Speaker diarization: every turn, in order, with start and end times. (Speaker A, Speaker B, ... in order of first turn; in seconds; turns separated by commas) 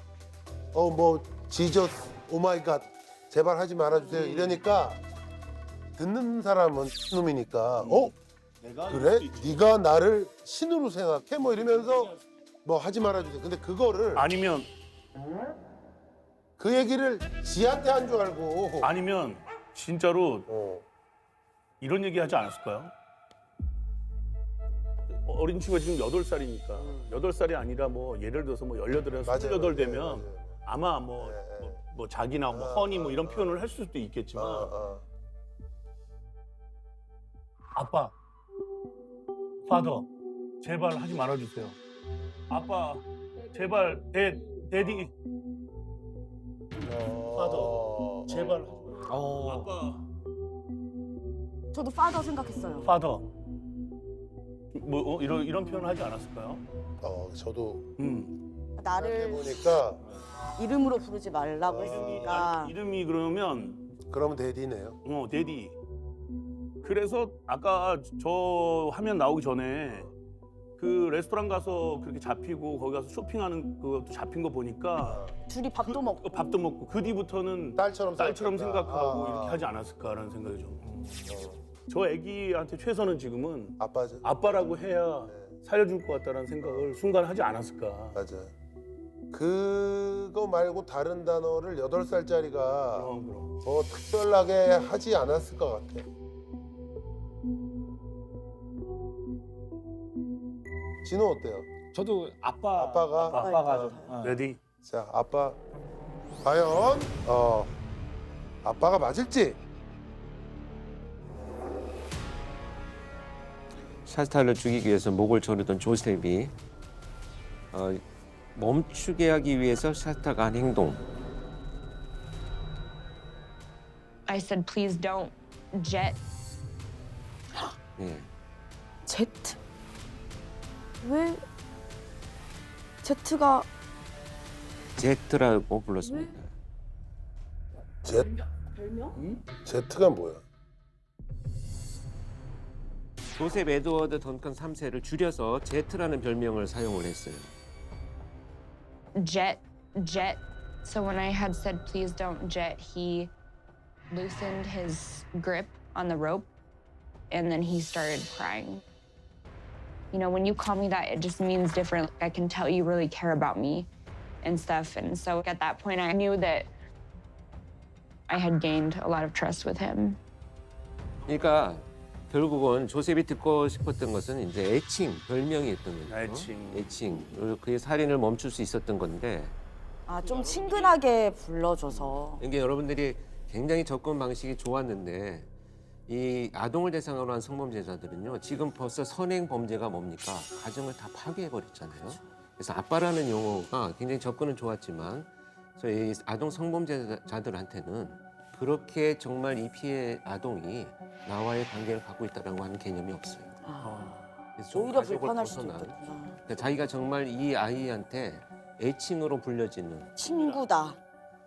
Speaker A: 0.7-5.0, Speaker B: 4.1-4.5, Speaker A: 6.0-8.1, Speaker B: 7.8-9.7, Speaker A: 8.9-14.3, Speaker B: 14.2-14.7, Speaker A: 16.6-18.9, Speaker B: 18.8-20.5, Speaker A: 20.5-20.8, Speaker B: 21.8-22.9, Speaker B: 25.1-34.7, Speaker A: 26.8-27.2, Speaker A: 29.2-30.6, Speaker A: 31.2-31.8, Speaker A: 32.5-33.6, Speaker A: 34.3-35.0, Speaker B: 37.7-38.1, Speaker B: 39.6-40.1, Speaker B: 40.6-41.8, Speaker B: 42.5-45.1, Speaker A: 46.8-49.0, Speaker B: 47.3-49.0, Speaker C: 49.0-49.9, Speaker B: 49.5-50.0, Speaker D: 51.7-52.9, Speaker B: 52.6-53.3, Speaker B: 54.7-56.6, Speaker A: 57.0-57.9, Speaker B: 58.0-58.4, Speaker D: 58.8-59.6, Speaker A: 59.0-60.0, Speaker D: 60.6-62.7, Speaker A: 61.7-62.3, Speaker B: 61.8-63.8, Speaker A: 64.1-65.0, Speaker B: 65.0-65.8, Speaker B: 66.8-70.1, Speaker B: 70.8-80.8, Speaker A: 75.0-75.3, Speaker D: 75.5-76.3, Speaker A: 77.8-79.7, Speaker C: 80.9-81.3, Speaker A: 81.2-81.6, Speaker B: 81.9-88.2, Speaker A: 83.8-84.2, Speaker A: 86.6-86.9, Speaker A: 88.1-88.5, Speaker A: 89.3-93.1, Speaker B: 92.9-93.5, Speaker A: 93.6-96.0, Speaker A: 101.0-101.7, Speaker C: 101.9-104.5, Speaker A: 102.8-104.0, Speaker D: 103.3-104.2, Speaker B: 104.2-104.6, Speaker A: 104.8-105.6, Speaker A: 106.4-107.7, Speaker A: 108.6-109.6, Speaker E: 114.0-116.5, Speaker E: 117.7-118.0, Speaker E: 118.5-121.0, Speaker F: 124.3-126.2, Speaker E: 128.0-128.3, Speaker D: 129.1-129.6, Speaker D: 131.0-131.4, Speaker D: 133.0-133.7, Speaker E: 135.0-136.5, Speaker A: 138.0-138.3, Speaker B: 139.1-139.4, Speaker A: 139.6-140.4, Speaker E: 143.4-147.5, Speaker F: 149.2-153.3, Speaker F: 154.1-156.5, Speaker F: 157.3-158.8, Speaker F: 160.1-163.9, Speaker F: 164.4-166.7, Speaker F: 168.3-170.2, Speaker E: 171.3-179.5, Speaker B: 176.1-176.9, Speaker D: 180.1-182.4, Speaker B: 180.3-180.9, Speaker E: 181.9-185.5, Speaker E: 186.1-210.1, Speaker D: 203.6-206.4, Speaker D: 210.2-211.0, Speaker B: 210.3-210.7